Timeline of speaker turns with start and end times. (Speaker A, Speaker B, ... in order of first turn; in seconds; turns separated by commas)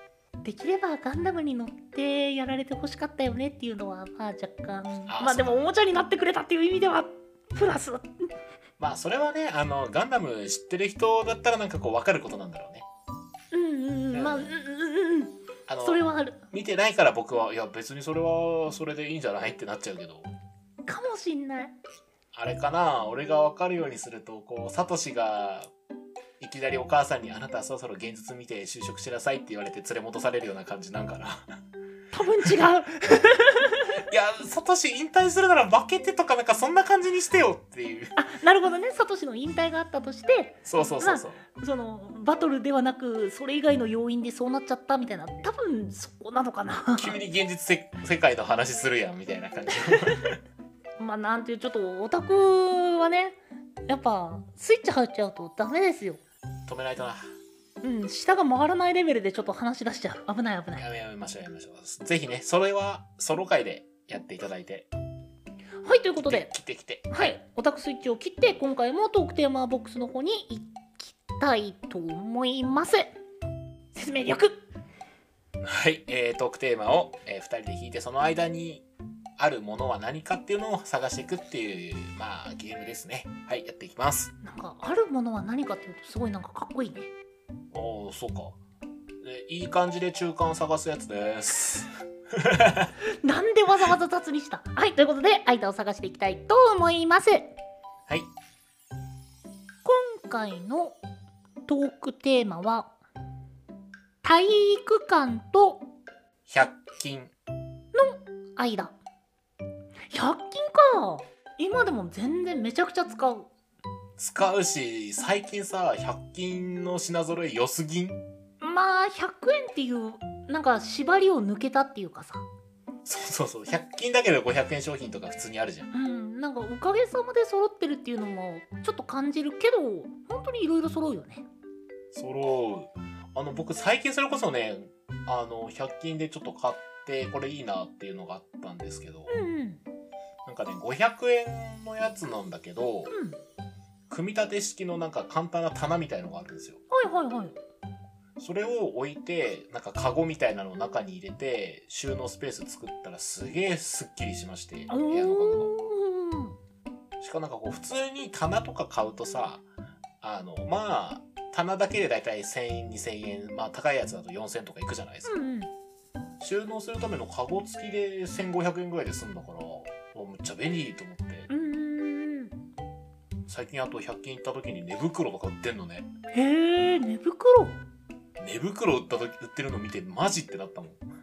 Speaker A: 0.4-8.1, Speaker B: 5.1-5.6, Speaker B: 8.8-12.8, Speaker A: 13.5-16.4, Speaker B: 14.1-14.5, Speaker B: 15.7-20.3, Speaker A: 20.9-21.8, Speaker B: 22.3-25.7, Speaker B: 26.4-31.5, Speaker A: 32.1-33.9, Speaker B: 34.1-38.1, Speaker A: 38.1-47.2, Speaker B: 40.6-41.4, Speaker B: 47.0-50.4, Speaker A: 49.9-50.2, Speaker A: 51.0-53.4, Speaker A: 53.9-56.2, Speaker B: 56.7-57.2, Speaker A: 57.8-60.8, Speaker B: 60.8-64.9, Speaker A: 65.8-66.5, Speaker B: 66.2-67.1, Speaker A: 67.1-73.1, Speaker A: 73.9-74.6, Speaker B: 75.6-78.8, Speaker B: 79.4-84.3, Speaker A: 84.4-87.1, Speaker B: 87.7-88.6, Speaker B: 89.2-92.9, Speaker A: 93.2-97.5, Speaker A: 99.8-101.0, Speaker A: 101.7-102.9, Speaker A: 104.2-105.9, Speaker B: 106.5-107.3, Speaker A: 107.9-108.9, Speaker A: 110.1-113.5, Speaker B: 114.2-118.2, Speaker A: 118.6-122.4, Speaker B: 123.0-125.9, Speaker A: 125.9-131.4, Speaker B: 132.1-139.4, Speaker A: 139.3-139.8, Speaker B: 140.4-143.1, Speaker A: 143.1-143.4, Speaker B: 144.1-146.8, Speaker A: 146.9-147.6, Speaker B: 148.4-155.7, Speaker A: 154.9-156.6, Speaker B: 157.2-159.6, Speaker B: 160.2-165.3, Speaker A: 165.2-165.7, Speaker B: 166.4-171.5, Speaker A: 171.5-172.5, Speaker B: 173.5-176.1, Speaker A: 176.3-177.8, Speaker B: 178.4-181.0